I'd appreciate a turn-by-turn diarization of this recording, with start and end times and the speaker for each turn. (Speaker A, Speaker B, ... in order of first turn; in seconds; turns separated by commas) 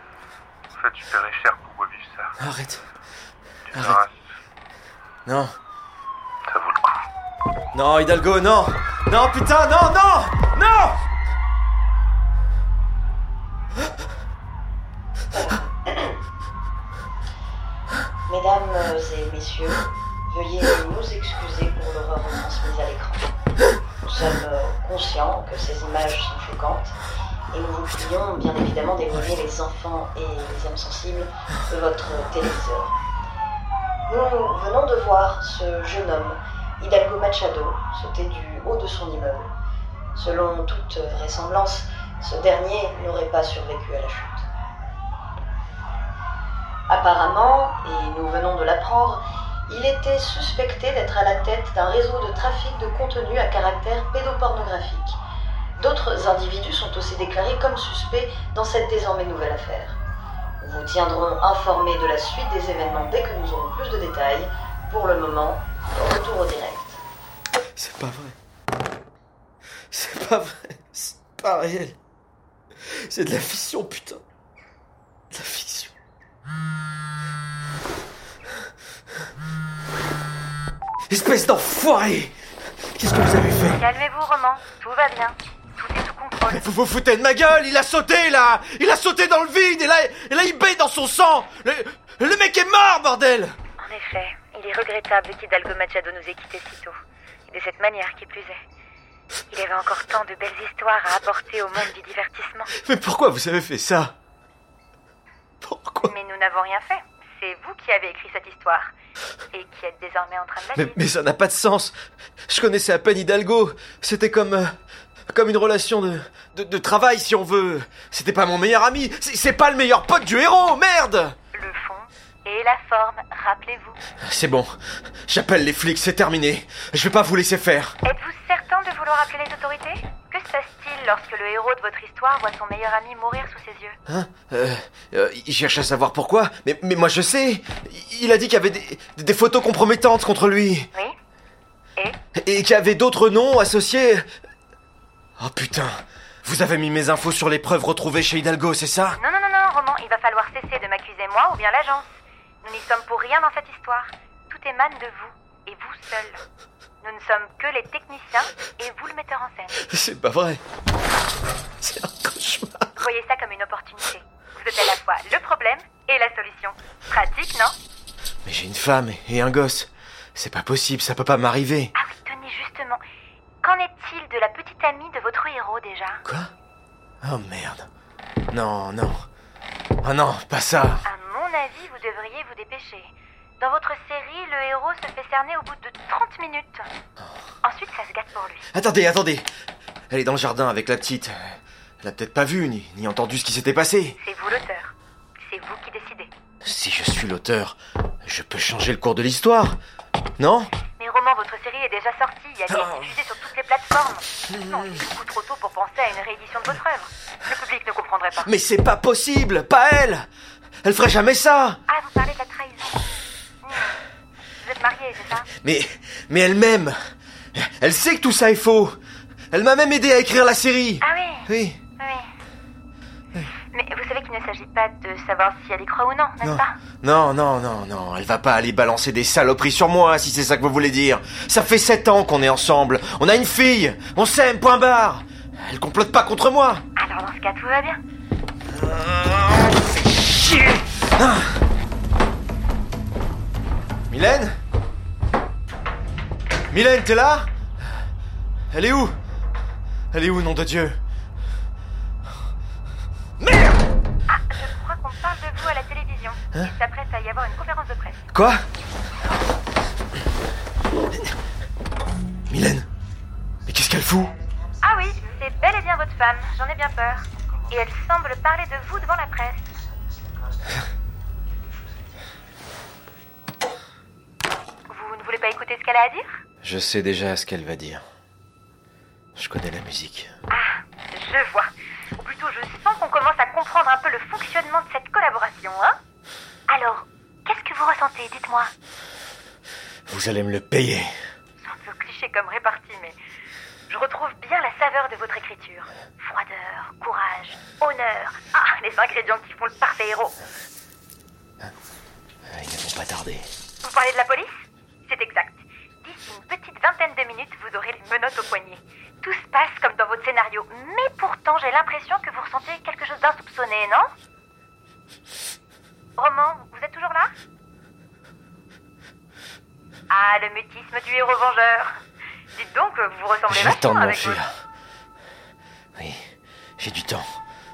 Speaker A: 0.7-2.4, Speaker B: 2.4-2.8, Speaker A: 3.7-4.1, Speaker B: 3.7-4.0, Speaker B: 5.2-5.5, Speaker A: 6.5-7.0, Speaker B: 7.7-11.0, Speaker C: 15.3-16.2, Speaker C: 18.3-23.3, Speaker C: 24.0-27.0, Speaker C: 27.5-32.9, Speaker C: 34.1-39.5, Speaker C: 40.1-44.5, Speaker C: 46.9-55.2, Speaker C: 55.8-60.0, Speaker C: 60.6-67.0, Speaker B: 67.8-68.3, Speaker B: 69.9-72.0, Speaker B: 72.9-74.2, Speaker B: 75.3-75.9, Speaker B: 81.1-82.3, Speaker B: 82.9-83.8, Speaker D: 83.7-86.6, Speaker B: 86.5-93.5, Speaker D: 93.8-97.0, Speaker D: 97.5-98.6, Speaker D: 99.5-102.7, Speaker B: 102.7-104.1, Speaker B: 105.6-106.1, Speaker D: 106.0-108.9, Speaker D: 109.5-111.0, Speaker B: 110.7-111.9, Speaker B: 112.5-114.7, Speaker B: 115.3-121.3, Speaker D: 121.5-124.0, Speaker B: 124.2-128.0, Speaker D: 128.0-134.0, Speaker B: 134.1-140.9, Speaker B: 142.3-144.2, Speaker B: 145.4-149.2, Speaker D: 149.2-152.1, Speaker D: 152.6-156.4, Speaker D: 157.0-159.8, Speaker B: 159.8-160.6, Speaker B: 161.8-163.0, Speaker D: 163.0-167.7, Speaker B: 168.4-171.9, Speaker D: 171.9-173.0, Speaker D: 173.6-176.2, Speaker B: 176.2-176.5, Speaker B: 177.2-177.9, Speaker B: 178.5-179.2, Speaker B: 180.0-181.0, Speaker D: 181.0-186.9, Speaker D: 187.6-188.7, Speaker B: 188.7-189.5, Speaker B: 190.1-194.2, Speaker D: 194.2-196.3, Speaker B: 196.6-199.8, Speaker B: 200.4-200.7, Speaker D: 201.0-208.5, Speaker B: 202.7-203.1, Speaker B: 204.5-205.0, Speaker B: 208.4-210.2, Speaker B: 210.8-211.8, Speaker D: 211.9-213.0, Speaker D: 213.6-214.0, Speaker D: 214.6-215.5, Speaker B: 215.6-216.9, Speaker B: 217.5-218.9, Speaker B: 219.5-221.8, Speaker D: 221.0-221.5, Speaker D: 222.0-222.2, Speaker D: 223.6-226.8, Speaker B: 226.4-236.8, Speaker D: 236.9-238.0, Speaker B: 238.7-241.6, Speaker B: 244.1-244.6, Speaker B: 246.7-247.5, Speaker B: 248.7-249.2, Speaker B: 250.1-251.0, Speaker B: 253.4-253.9, Speaker D: 254.3-258.3, Speaker B: 258.3-258.6, Speaker B: 262.5-262.9, Speaker B: 263.6-264.3, Speaker D: 264.8-269.7, Speaker D: 274.9-276.4, Speaker B: 276.6-278.0, Speaker B: 279.4-280.3, Speaker D: 280.5-286.0, Speaker D: 286.7-288.7, Speaker B: 290.1-291.1, Speaker D: 291.6-293.2, Speaker D: 293.9-300.4, Speaker B: 302.5-303.5, Speaker D: 303.8-314.1, Speaker D: 316.2-317.3, Speaker D: 320.1-322.0, Speaker D: 322.5-324.4, Speaker B: 323.5-324.5, Speaker B: 325.9-326.2, Speaker B: 326.8-327.4